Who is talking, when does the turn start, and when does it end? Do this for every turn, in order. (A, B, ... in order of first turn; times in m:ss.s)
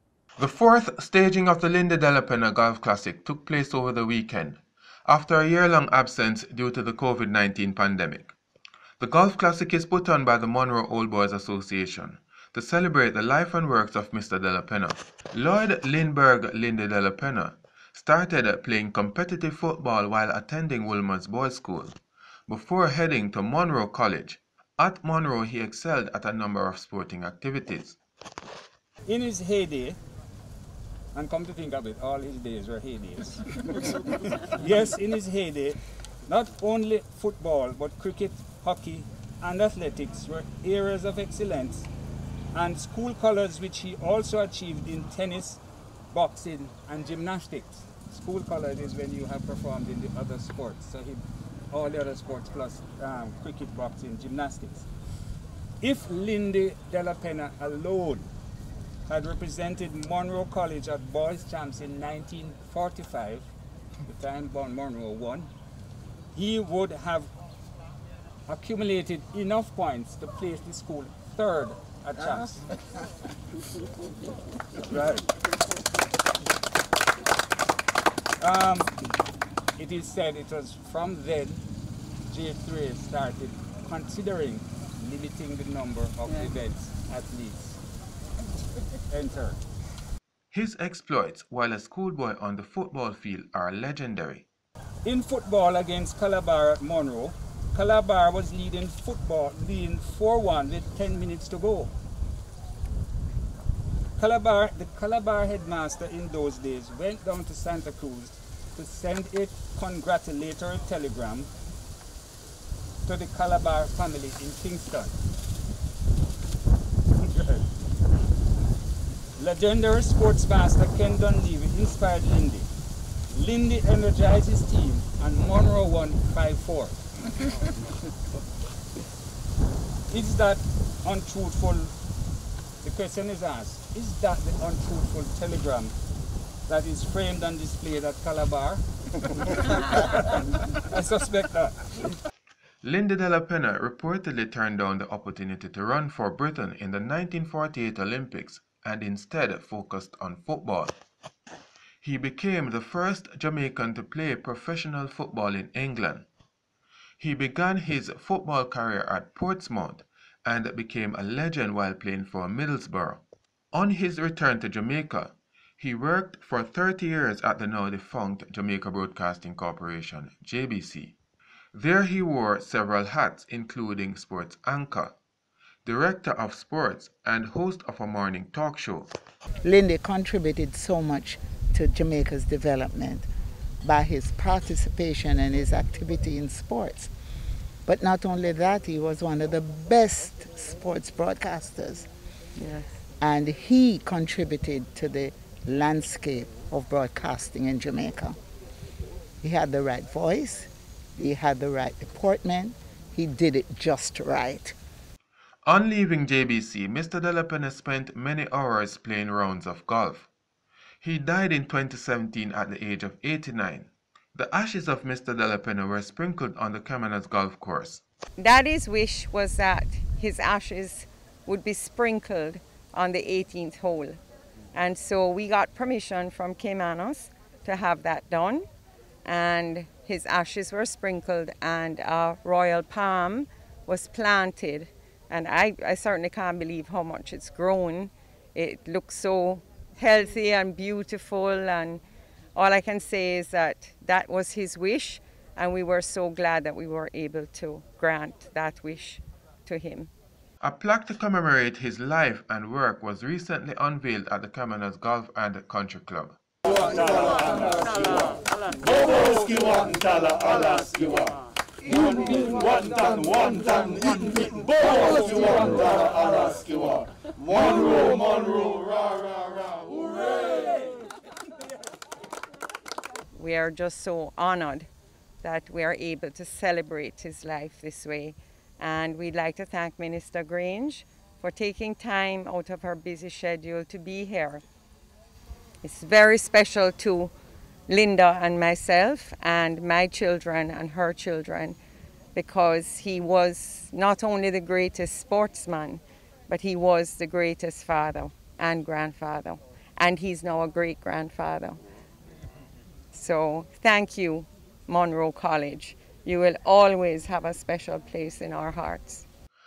0:00.4-0:08.3 A
0:09.0-0:22.0 A
0:22.5-0:28.0 A
0:29.1-0:30.0 B
0:31.1-0:41.9 B
0:42.5-0:45.6 B
0:46.1-0:54.9 B
0:55.8-0:58.3 B
0:59.1-1:03.5 B
1:04.1-1:05.5 B
1:06.3-1:07.3 B
1:08.5-1:12.8 B
1:14.8-1:15.3 B
1:18.4-1:19.0 B
1:19.8-1:21.6 B
1:22.3-1:27.8 B
1:29.1-1:29.6 B
1:30.5-1:34.5 A
1:35.0-1:41.9 B
1:44.2-1:51.5 B
1:53.1-1:55.2 B
1:57.2-1:57.7 B
1:59.4-2:02.7 B
2:03.3-2:07.0 B
2:10.1-2:11.9 B
2:12.8-2:16.0 B
2:16.7-2:22.2 B
2:22.8-2:31.0 A
2:32.0-2:36.3 A
2:37.2-2:51.2 A
2:51.7-2:55.2 A
2:55.8-2:59.1 A
2:59.6-3:03.3 C
3:03.8-3:07.1 C
3:07.9-3:12.1 C
3:12.6-3:12.8 D
3:13.2-3:18.4 C
3:19.4-3:24.8 C
3:25.6-3:30.3 A
3:31.0-3:38.0 A
3:38.4-3:44.2 D
3:44.7-3:48.7 D
3:49.2-4:02.0 D
4:02.6-4:10.1 D
4:10.6-4:16.4 A
4:22.3-4:22.8 B
4:24.2-4:26.0 B
4:33.4-4:34.9 D
4:35.4-4:44.6 D
4:45.8-4:47.3 D
4:47.9-4:51.8 D
4:52.4-5:01.8 D
5:03.1-5:09.2 D